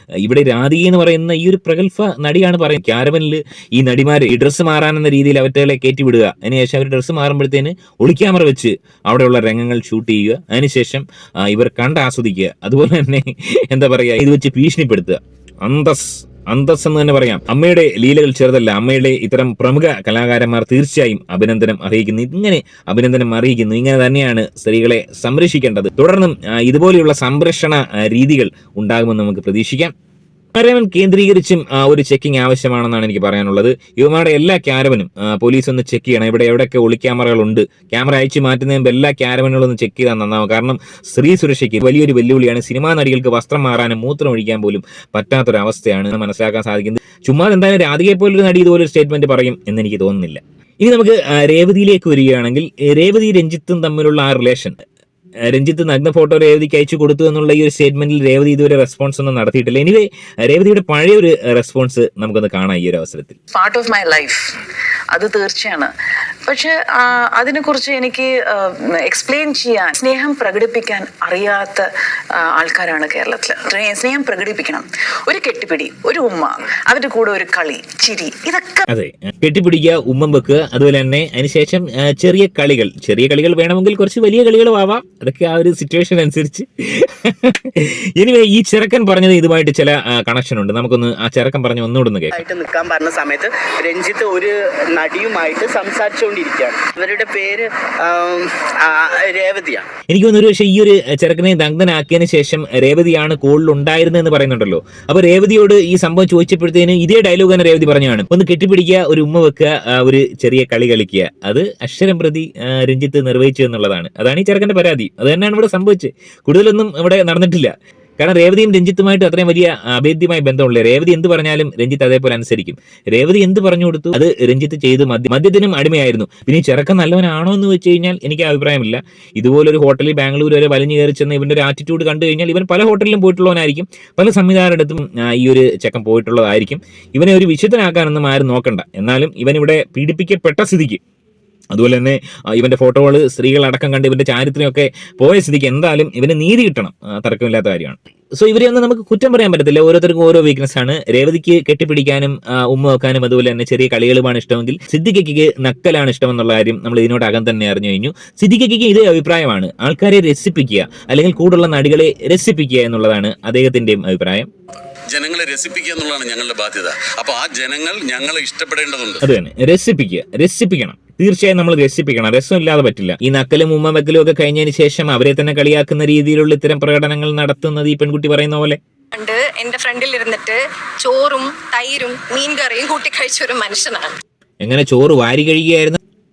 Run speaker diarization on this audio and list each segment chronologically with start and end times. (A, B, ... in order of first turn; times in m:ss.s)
0:00.2-0:29.9 A
0:30.6-0:54.8 A
0:55.5-1:03.4 A
1:03.5-1:04.4 B
1:05.1-1:05.9 B
1:06.5-1:18.9 B
1:18.9-1:32.3 A
1:32.3-1:39.9 C
1:40.1-2:21.0 A
2:21.7-2:44.5 A
2:45.1-2:49.2 D
2:49.2-2:58.8 A
2:59.1-3:04.2 E
3:04.6-3:06.0 A